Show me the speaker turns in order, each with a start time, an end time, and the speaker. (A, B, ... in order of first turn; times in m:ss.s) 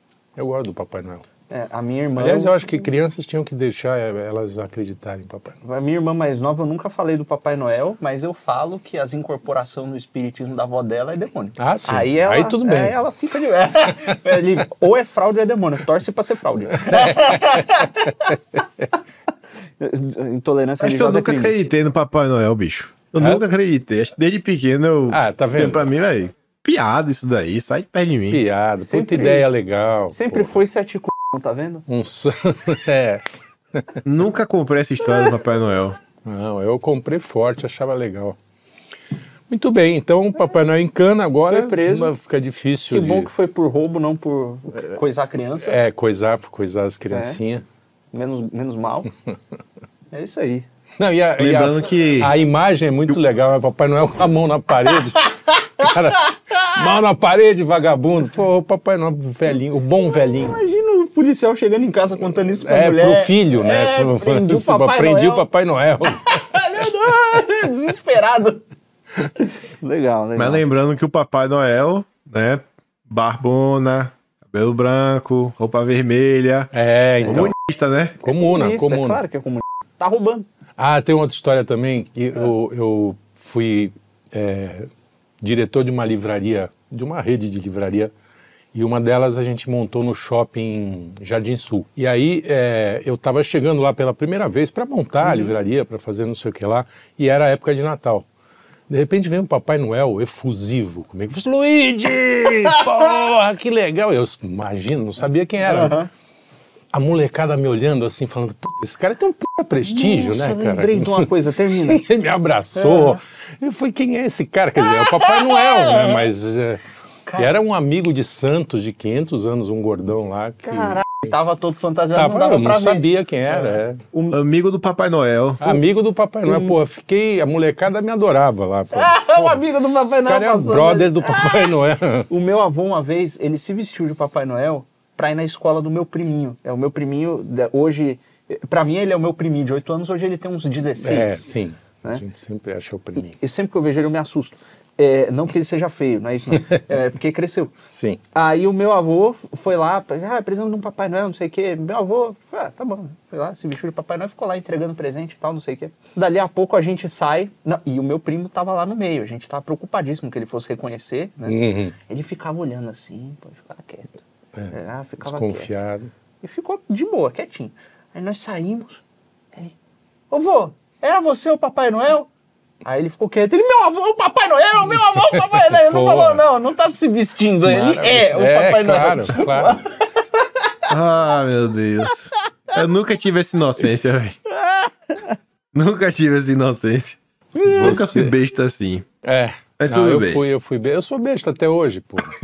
0:00.4-0:01.2 A
0:01.5-0:02.6 B
0:02.2-0:05.6 A
0:05.6-0:18.4 B
0:11.6-0:13.0 A
0:13.8-0:14.4 A
0:16.8-0:17.8 A
0:19.8-0:21.5 B
0:20.8-0:28.4 C
0:23.2-0:23.4 A
0:25.1-0:25.8 A
0:28.3-0:30.6 A
0:28.8-0:29.5 B
0:30.1-0:31.9 B
0:31.9-0:34.0 A
0:34.0-0:36.0 C
0:36.2-0:38.4 A
0:39.5-0:43.3 A
0:41.5-0:42.1 B
0:42.9-0:45.8 B
0:45.6-0:47.6 A
0:47.1-0:47.4 B
0:48.1-0:49.1 B
0:50.1-0:50.7 B
0:51.0-1:00.6 A
0:51.4-0:52.4 C
1:00.2-1:05.5 B
1:02.6-1:06.6 A
1:06.0-1:08.6 B
1:09.4-1:10.6 B
1:10.4-1:18.2 C
1:16.7-1:17.6 A
1:17.2-1:17.5 B
1:18.2-1:19.2 A
1:18.2-1:20.5 B
1:20.8-1:24.9 A
1:25.4-1:28.1 A
1:28.7-1:38.3 A
1:35.2-1:35.5 B
1:38.9-1:46.0 A
1:45.6-1:46.1 B
1:46.9-1:56.8 A
1:49.8-1:52.0 B
1:52.8-1:53.2 B
1:54.8-1:56.3 B
1:57.2-1:57.6 B
1:57.4-2:01.3 A
2:00.7-2:04.4 B
2:02.1-2:04.0 A
2:04.3-2:05.8 C
2:05.6-2:12.3 A
2:06.5-2:06.8 B
2:08.9-2:11.7 B
2:12.3-2:21.5 B
2:21.0-2:23.4 A
2:23.4-2:27.7 B
2:26.5-2:26.8 A
2:27.9-2:28.2 A
2:28.3-2:44.2 B
2:41.4-2:42.0 A
2:44.6-2:46.1 A
2:44.7-2:45.7 B
2:46.4-2:49.0 B
2:50.3-2:52.3 B
2:52.8-3:00.8 B
2:54.9-2:56.4 A
2:57.6-2:59.8 A
3:00.9-3:04.4 C
3:04.5-3:05.4 B
3:05.7-3:09.1 C
3:07.5-3:08.2 B
3:07.7-3:08.4 A
3:09.2-3:12.4 A
3:09.8-3:10.4 C